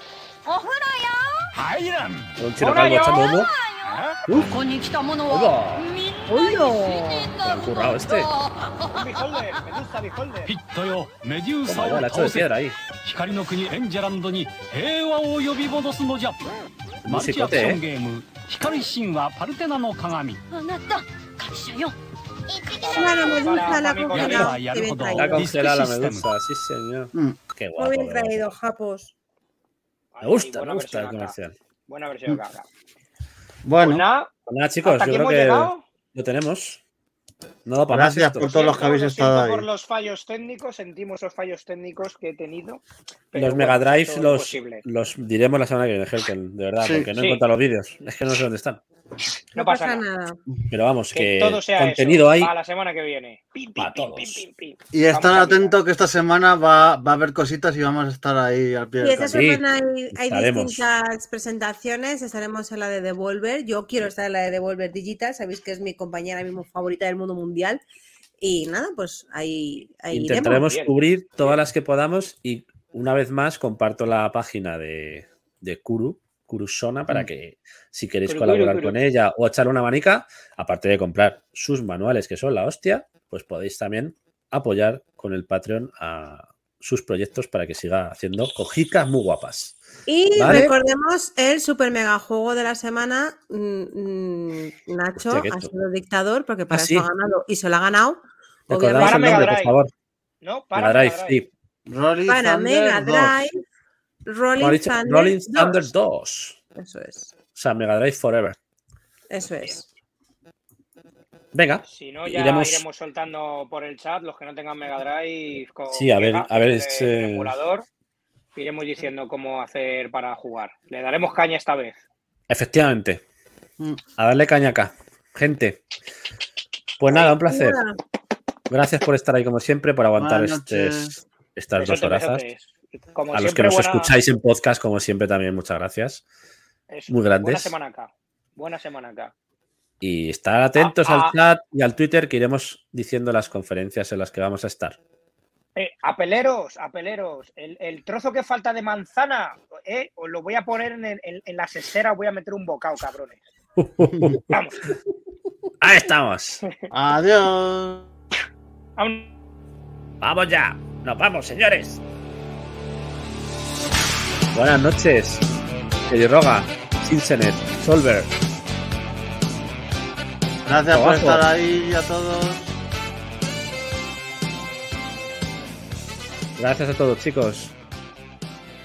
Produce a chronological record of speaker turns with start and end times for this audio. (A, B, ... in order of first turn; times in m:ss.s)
0:00.4-0:01.4 A
0:01.5-0:02.4 B
0:02.4-0:03.5 C
0:02.6-0:03.2 D
0:03.0-0:09.6 A
0:03.8-0:05.2 B
0:04.3-0:04.6 C
0:05.3-0:05.9 C
0:06.3-0:07.3 E
0:07.4-0:08.3 C
0:08.9-0:10.5 D
0:10.4-0:16.4 B
0:11.6-0:12.8 C
0:17.0-0:20.4 B
0:17.0-0:17.8 C
0:20.5-0:21.9 A
0:22.5-0:23.7 A
0:22.7-0:24.6 D
0:22.9-0:25.5 E
0:24.1-0:26.3 B
0:25.1-0:28.5 C
0:27.8-0:29.1 E
0:30.1-0:31.3 D
0:30.2-0:31.5 C
0:31.9-0:32.7 D
0:33.6-0:34.0 F
0:33.8-0:34.3 D
0:34.5-0:36.8 C
0:34.8-0:35.8 D
0:37.6-0:38.5 C
0:37.9-0:39.6 F
0:38.4-0:44.8 D
0:43.3-0:48.8 C
0:46.8-0:47.1 F
0:49.5-0:50.0 D
0:49.6-0:50.4 E
0:50.7-0:52.5 C
0:51.1-0:55.7 D
0:53.8-0:54.4 C
0:54.9-0:59.4 F
0:59.0-1:07.8 E
0:59.2-0:59.6 C
1:00.1-1:00.8 C
1:08.4-1:10.7 E
1:10.1-1:29.8 C
1:10.6-1:11.6 D
1:18.3-1:19.0 D
1:30.1-1:39.5 E
1:30.3-1:30.7 C
1:35.2-1:35.7 C
1:36.7-1:37.1 C
1:38.7-1:39.9 C
1:39.0-1:39.8 D
1:40.4-1:41.4 D
1:40.8-1:41.5 C
1:41.8-1:43.4 F
1:42.3-1:43.6 E
1:44.2-1:45.9 E
1:44.6-1:46.6 C
1:46.8-1:47.3 E
1:47.5-1:48.6 C
1:49.3-1:49.8 E
1:51.5-1:52.8 C
1:51.9-1:57.8 D
1:55.9-1:57.5 C
1:58.5-2:02.0 D
2:02.5-2:03.2 C
2:04.2-2:05.8 C
2:07.0-2:07.8 C
2:07.1-2:08.0 E
2:08.7-2:12.4 C
2:10.2-2:11.1 F
2:11.8-2:14.1 D
2:13.3-2:16.2 C
2:16.9-2:19.3 D
2:17.1-2:17.7 C
2:20.0-2:25.0 C
2:20.8-2:21.4 D
2:25.8-2:33.4 D
2:33.8-2:34.4 C
2:34.0-2:34.4 F
2:34.5-2:34.8 D
2:35.8-2:36.6 C
2:36.9-2:38.1 F
2:39.0-2:39.3 D
2:40.2-2:42.0 C
2:44.5-2:45.4 C
2:46.1-2:48.3 C
2:50.6-2:52.7 F
2:50.9-2:51.4 C
2:56.6-2:57.7 C